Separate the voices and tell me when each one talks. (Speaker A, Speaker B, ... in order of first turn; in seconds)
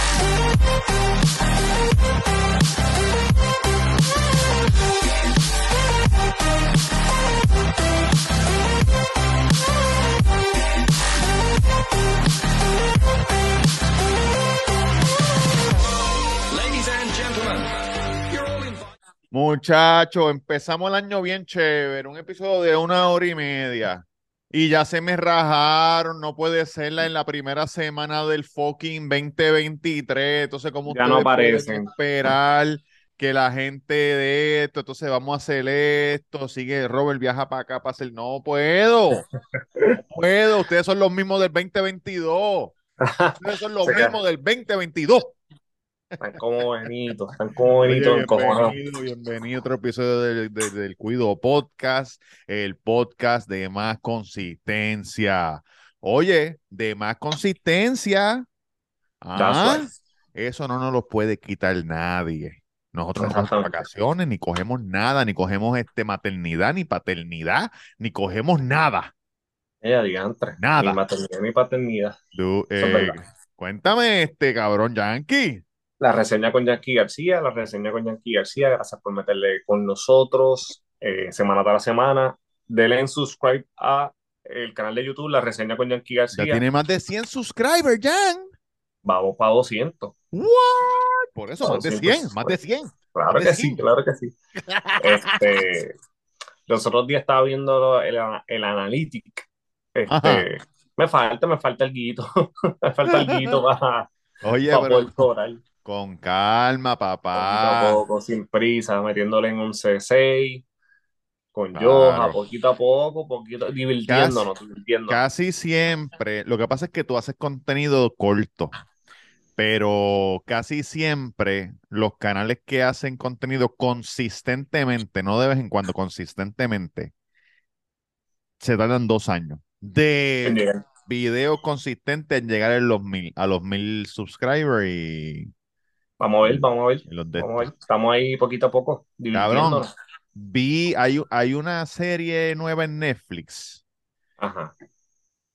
Speaker A: 16.5-18.9
Speaker B: 19.3-39.2, 40.0-42.8, 43.4-45.4, 47.9-58.5, 59.2-69.1, 70.6-71.0, 72.3-75.6, 86.3-88.5, 90.3-93.8, 94.6-95.4, 100.1-100.5, 103.1-103.6, 104.4-105.3, 105.8-108.0, 111.8-112.4, 114.1-114.4, 115.1-118.7, 119.6-127.1, 128.6-135.5, 136.4-137.7, 139.3-143.8
Speaker C: 30.9-31.9, 43.0-44.2, 46.2-48.8, 59.4-59.9, 63.2-63.9, 69.8-72.2, 72.8-73.2, 76.0-86.6, 89.0-90.1, 91.6-92.6, 93.2-94.3, 95.0-95.9, 96.7-104.1, 104.7-105.6, 107.3-110.6, 111.5-115.2, 130.4-130.8, 136.2-139.9, 144.4-144.7